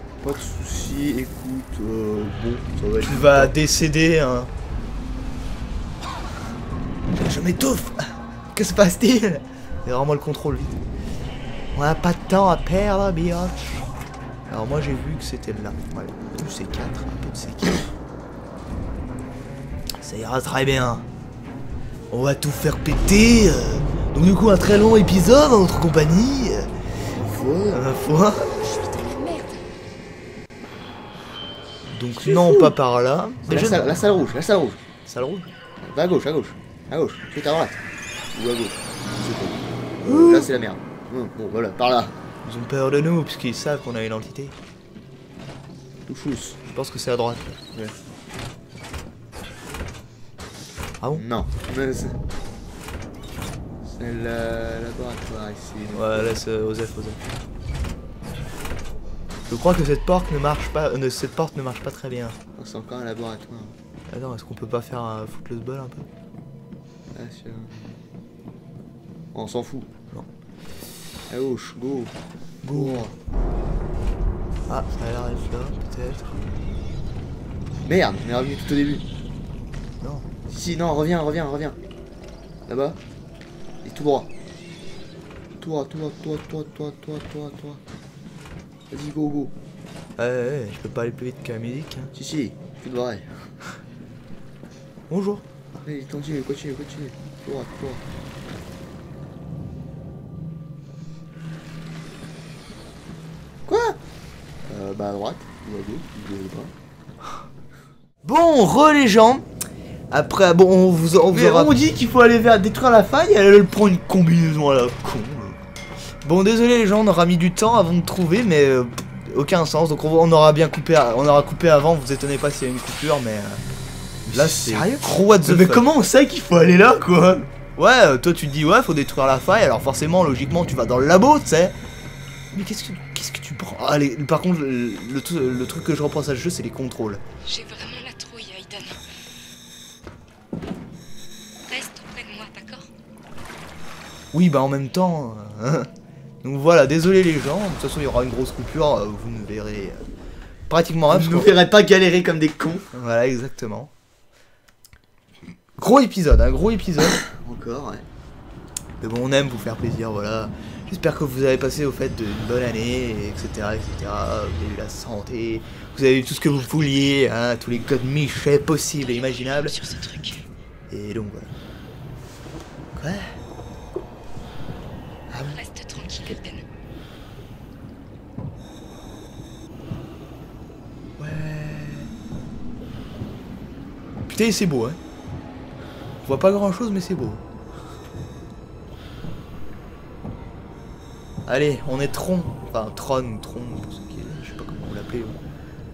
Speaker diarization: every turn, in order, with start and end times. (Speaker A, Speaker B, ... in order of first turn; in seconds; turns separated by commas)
Speaker A: 0.2-3.5, Speaker B: 3.0-4.5, Speaker B: 7.1-10.8, Speaker B: 11.7-13.9, Speaker B: 14.5-17.8, Speaker B: 20.0-21.1, Speaker B: 22.1-26.7, Speaker A: 27.1-27.8, Speaker B: 27.7-28.5, Speaker C: 28.4-29.7, Speaker B: 31.9-34.0, Speaker A: 32.2-32.7, Speaker A: 33.5-34.8, Speaker B: 35.1-35.5, Speaker A: 35.9-37.8, Speaker A: 38.3-42.2, Speaker B: 40.0-40.5, Speaker B: 42.5-44.5, Speaker A: 46.1-46.6, Speaker B: 46.7-47.5, Speaker A: 51.1-52.2, Speaker A: 53.9-56.4, Speaker B: 55.9-57.2, Speaker B: 59.5-62.4, Speaker A: 62.6-63.8, Speaker B: 64.1-66.1, Speaker A: 67.1-68.0, Speaker A: 69.3-70.0, Speaker A: 71.3-72.2, Speaker B: 72.6-73.1, Speaker A: 72.7-73.1, Speaker B: 74.7-76.3, Speaker A: 77.9-79.0, Speaker B: 80.0-80.3, Speaker A: 80.5-81.8, Speaker A: 82.7-83.0, Speaker A: 83.8-84.3, Speaker A: 85.6-87.8, Speaker A: 88.9-89.5, Speaker B: 90.2-92.1, Speaker A: 92.2-93.3, Speaker B: 95.1-95.4, Speaker A: 95.8-98.0, Speaker A: 103.7-104.0, Speaker A: 104.7-106.7, Speaker B: 108.2-109.5, Speaker B: 110.1-111.8, Speaker A: 111.3-115.6, Speaker B: 116.2-123.6, Speaker B: 124.3-125.9, Speaker A: 124.3-127.5, Speaker B: 127.8-131.8, Speaker B: 132.5-137.2, Speaker C: 137.4-139.0, Speaker C: 141.7-142.9, Speaker B: 144.3-145.9, Speaker B: 146.4-150.0, Speaker B: 150.7-151.6, Speaker A: 151.1-152.9, Speaker B: 152.9-153.9, Speaker B: 155.8-157.2, Speaker A: 157.2-158.1, Speaker B: 159.0-169.8, Speaker C: 169.2-170.4, Speaker B: 170.9-171.5, Speaker B: 172.9-173.4, Speaker B: 175.3-175.6, Speaker C: 175.4-176.6, Speaker B: 181.2-182.1, Speaker B: 184.3-185.0, Speaker B: 186.2-187.4, Speaker B: 191.5-195.4